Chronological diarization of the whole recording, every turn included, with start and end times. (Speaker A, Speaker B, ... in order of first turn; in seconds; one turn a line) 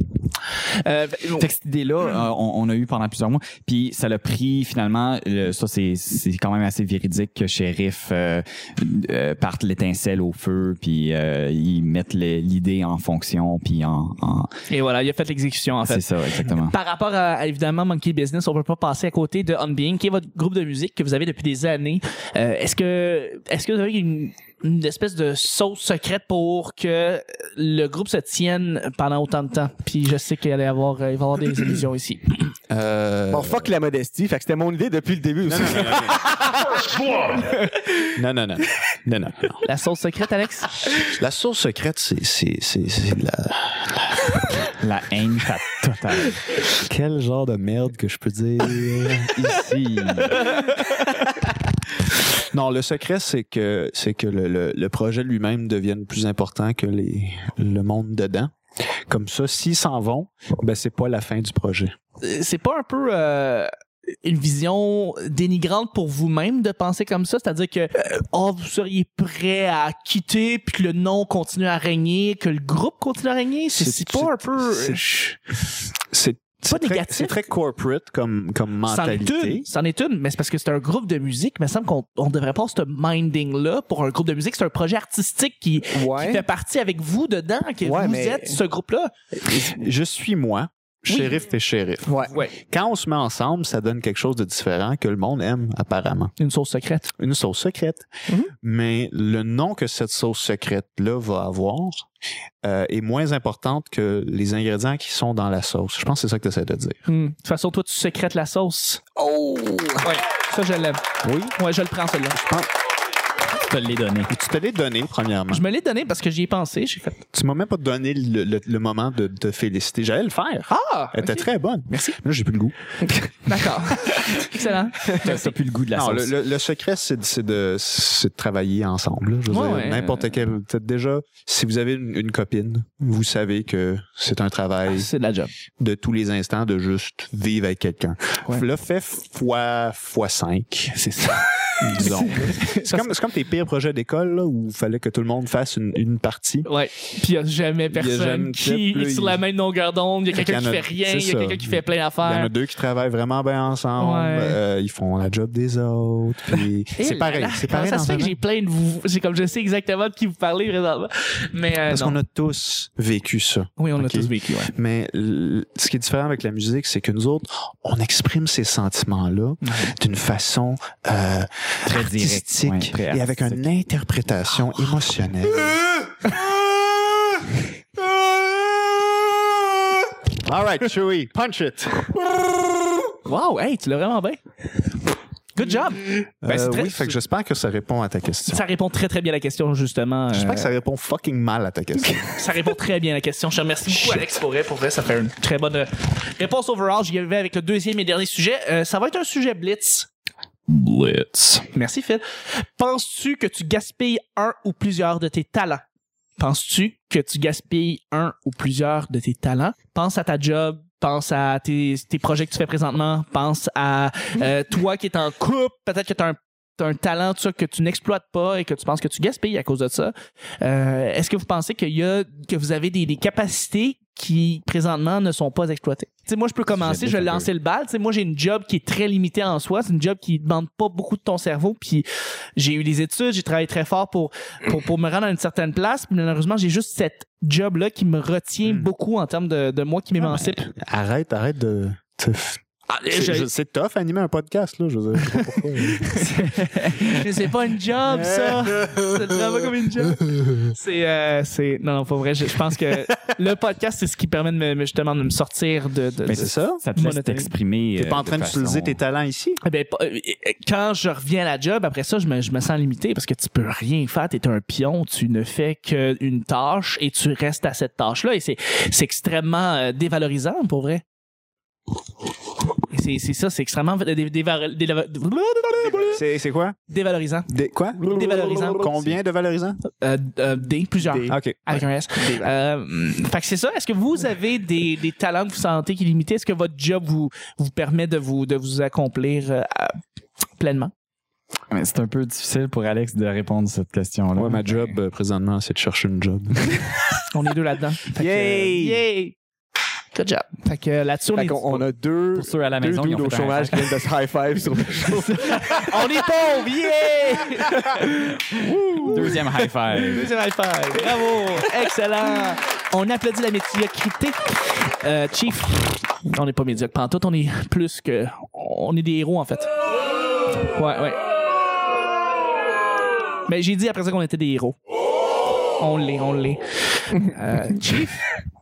Speaker A: 0.5-1.5
Speaker B: 1.4-14.6
Speaker A: 14.7-32.5
Speaker B: 15.8-16.7
Speaker C: 32.7-33.7
Speaker D: 33.3-36.2
Speaker C: 35.5-36.9
Speaker C: 38.0-39.6
Speaker A: 39.6-40.7
Speaker C: 41.0-44.5
Speaker B: 44.8-46.4
Speaker C: 46.7-50.6
Speaker B: 49.4-50.4
Speaker C: 52.3-58.5
Speaker C: 59.1-61.9
Speaker A: 62.2-63.7
Speaker A: 64.2-75.4
Speaker C: 73.7-75.0
Speaker C: 76.1-79.7
Speaker A: 76.6-77.4
Speaker A: 78.9-89.1
Speaker D: 85.9-86.4
Speaker D: 87.8-88.6
Speaker C: 89.4-96.3
Speaker A: 91.1-91.4
Speaker D: 92.1-92.3
Speaker A: 92.3-92.5
Speaker A: 96.4-97.1
Speaker C: 97.2-102.0
Speaker C: 102.6-107.0
Speaker A: 107.1-109.0
Speaker D: 109.2-110.1
Speaker A: 110.0-111.0
Speaker C: 111.2-111.5
Speaker A: 111.5-112.4
Speaker C: 112.3-112.7
Speaker B: 113.7-114.3
Speaker C: 114.3-115.6
Speaker A: 115.5-117.2
Speaker C: 117.3-123.4
Speaker A: 120.7-122.2
Speaker A: 123.5-125.5
Speaker B: 125.1-126.3
Speaker C: 125.9-135.1
Speaker A: 129.5-130.4
Speaker A: 134.9-135.5
Speaker C: 135.8-141.2
Speaker A: 141.1-143.0
Speaker C: 141.8-146.7
Speaker A: 146.6-152.5
Speaker C: 147.9-149.4
Speaker C: 150.3-158.4
Speaker A: 154.0-154.6
Speaker A: 157.0-162.2
Speaker C: 161.9-176.5
Speaker A: 163.8-164.7
Speaker A: 169.6-169.9
Speaker B: 171.8-173.6
Speaker C: 180.3-182.3
Speaker A: 183.2-184.4
Speaker A: 185.5-187.2
Speaker C: 186.4-188.6
Speaker A: 188.5-190.7
Speaker C: 190.3-192.5
Speaker A: 192.3-200.1
Speaker A: 200.7-205.8
Speaker A: 206.4-232.1
Speaker B: 226.7-227.5
Speaker A: 232.6-240.7
Speaker C: 238.6-238.9
Speaker C: 240.2-246.4
Speaker A: 242.9-243.5
Speaker B: 246.2-247.2
Speaker A: 247.1-257.5
Speaker C: 248.1-249.2
Speaker B: 256.3-259.0
Speaker C: 256.3-256.8
Speaker C: 257.9-259.6
Speaker A: 259.6-271.0
Speaker A: 272.9-276.2
Speaker C: 276.1-276.8
Speaker A: 276.9-278.9
Speaker C: 277.5-278.2
Speaker D: 278.1-279.0
Speaker C: 278.8-279.8
Speaker A: 279.9-290.0
Speaker D: 281.0-281.4
Speaker C: 281.3-281.8
Speaker D: 282.1-282.5
Speaker A: 290.6-290.9
Speaker B: 291.7-294.9
Speaker C: 294.3-296.9
Speaker A: 297.3-299.4
Speaker D: 298.1-299.0
Speaker A: 300.1-301.9
Speaker D: 301.3-306.0
Speaker B: 302.4-304.1
Speaker A: 305.8-308.1
Speaker D: 307.7-309.2
Speaker A: 308.6-319.7
Speaker B: 309.0-310.3
Speaker A: 320.6-321.2
Speaker A: 323.5-324.8
Speaker A: 325.8-328.3